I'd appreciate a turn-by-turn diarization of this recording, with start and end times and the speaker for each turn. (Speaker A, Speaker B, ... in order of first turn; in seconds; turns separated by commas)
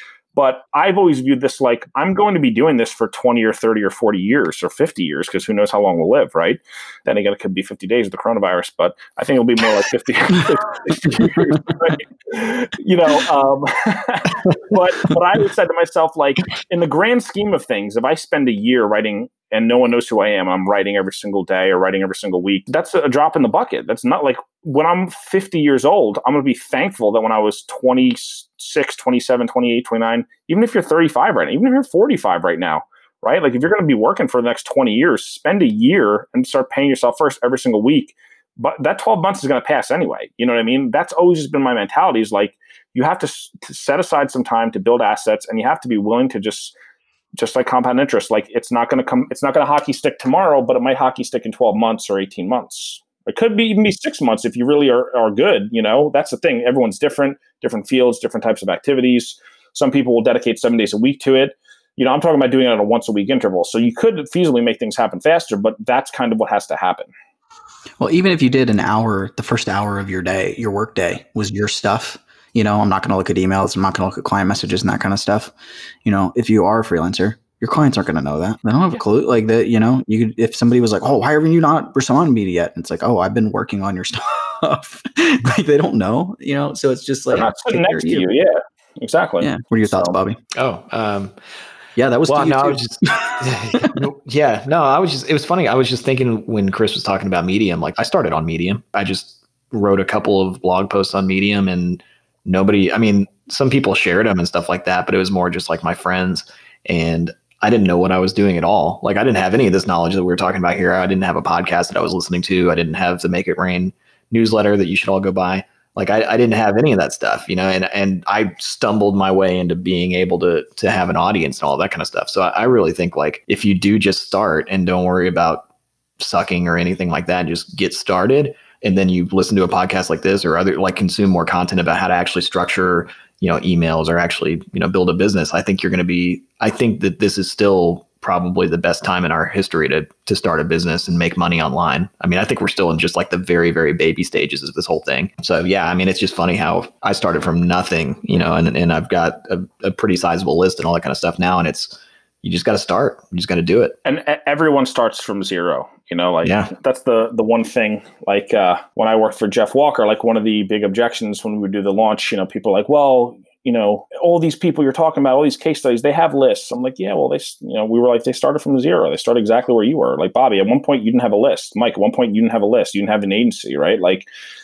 Speaker A: 0.4-46.7, Speaker A: 47.4-67.1, Speaker B: 68.0-75.5, Speaker B: 76.0-88.3, Speaker A: 87.3-90.2, Speaker B: 89.4-90.4, Speaker C: 90.5-91.3, Speaker B: 92.0-94.0, Speaker C: 92.3-125.7, Speaker C: 126.2-154.0, Speaker A: 154.1-174.3, Speaker C: 156.4-156.7